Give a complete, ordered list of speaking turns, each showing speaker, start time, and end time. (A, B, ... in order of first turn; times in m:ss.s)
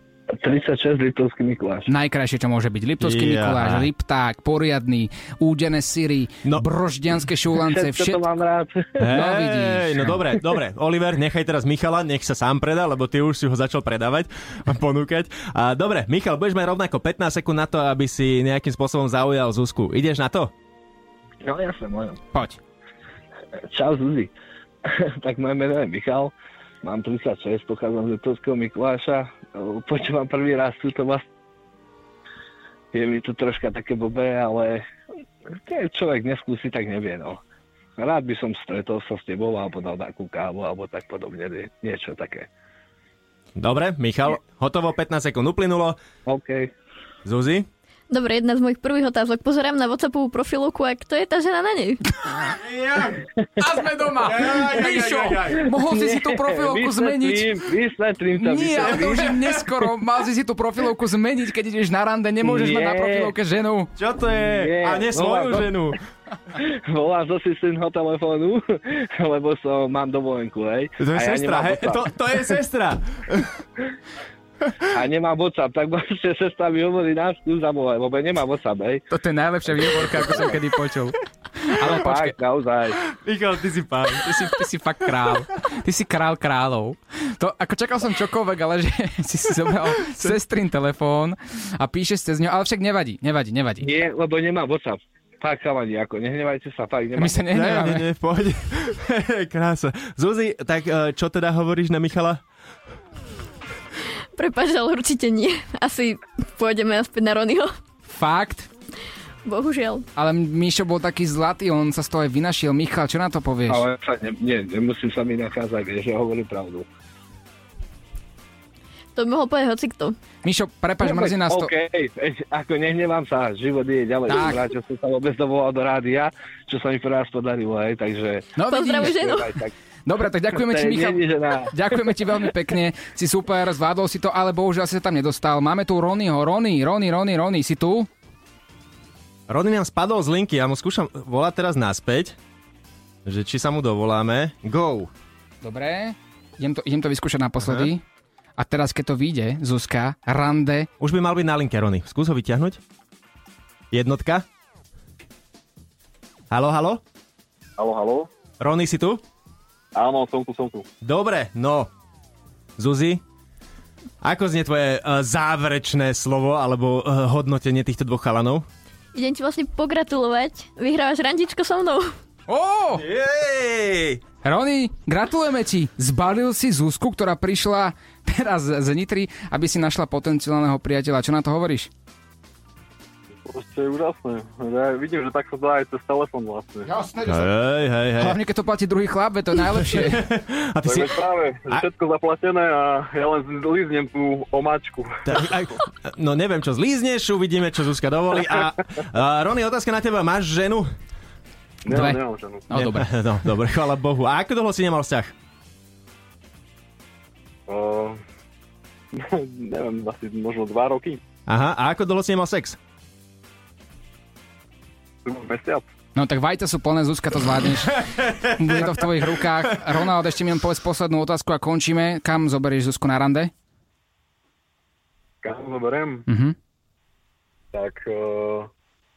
0:00.4-0:01.9 A
0:01.9-0:08.2 B
0:03.0-0:03.9 C
0:07.6-0:08.9 A
0:09.0-0:20.5 C
0:09.1-0:10.2 B
0:21.4-0:22.2 A
0:22.3-0:22.6 B
0:23.7-0:24.3 A
0:25.2-0:26.3 A
0:26.8-0:31.2 A
0:32.9-0:34.8 A
0:35.7-0:37.4 A
0:38.0-0:42.5 A
0:43.6-0:46.0 C
0:46.2-0:46.7 A
0:47.2-0:47.7 C
0:48.1-0:52.0 D
0:52.6-0:53.2 C
0:53.6-0:57.6 B
0:54.2-0:55.7 C
0:55.9-0:58.9 A
0:58.4-1:03.9 B
1:02.4-1:03.3 A
1:04.0-1:06.0 C
1:04.5-1:05.7 A
1:06.9-1:08.6 A
1:09.2-1:12.0 A
1:11.0-1:13.5 C
1:15.0-1:19.0 A
1:19.1-1:21.2 B
1:21.7-1:22.3 B
1:21.9-1:22.9 A
1:23.2-1:24.3 C
1:24.2-1:33.9 B
1:30.0-1:30.4 C
1:33.8-1:37.4 A
1:37.2-1:38.0 B
1:37.5-1:42.4 C
1:44.3-1:47.7 D
1:48.1-1:48.7 B
1:49.4-1:50.0 D
1:50.2-1:53.8 B
1:53.7-1:56.8 A
1:59.1-2:00.1 D
2:00.4-2:01.7 B
2:01.0-2:08.5 A
2:04.3-2:04.6 B
2:08.6-2:09.2 B
2:08.7-2:09.5 D
2:09.1-2:09.7 A
2:10.0-2:18.1 B
2:10.7-2:11.7 A
2:19.5-2:22.4 C
2:23.2-2:25.1 C
2:25.6-2:28.0 B
2:27.6-2:27.9 C
2:28.6-2:30.9 B
2:31.0-2:32.8 C
2:33.9-2:34.4 C
2:36.5-2:37.0 C
2:37.8-2:38.3 E
2:38.6-2:39.2 C
2:39.9-2:40.8 E
2:41.0-2:41.9 C
2:42.8-2:43.2 C
2:44.2-2:48.6 C
2:49.1-2:52.1 D
2:52.5-2:53.0 B
2:52.9-2:54.2 C
2:54.4-3:01.9 B
3:03.4-3:06.9 E
3:06.8-3:07.5 B
3:07.2-3:08.4 C
3:08.2-3:10.3 B
3:09.9-3:11.2 C
3:10.8-3:15.5 E
3:15.2-3:20.9 C
3:21.8-3:22.7 E
3:21.9-3:23.1 B
3:22.7-3:25.3 C
3:27.7-3:28.2 E
3:29.1-3:31.2 E
3:31.5-3:32.8 C
3:35.2-3:35.8 E
3:36.1-3:43.5 B
3:38.0-3:39.3 C
3:45.4-3:46.2 E
3:46.3-3:46.6 B
3:47.7-3:48.7 E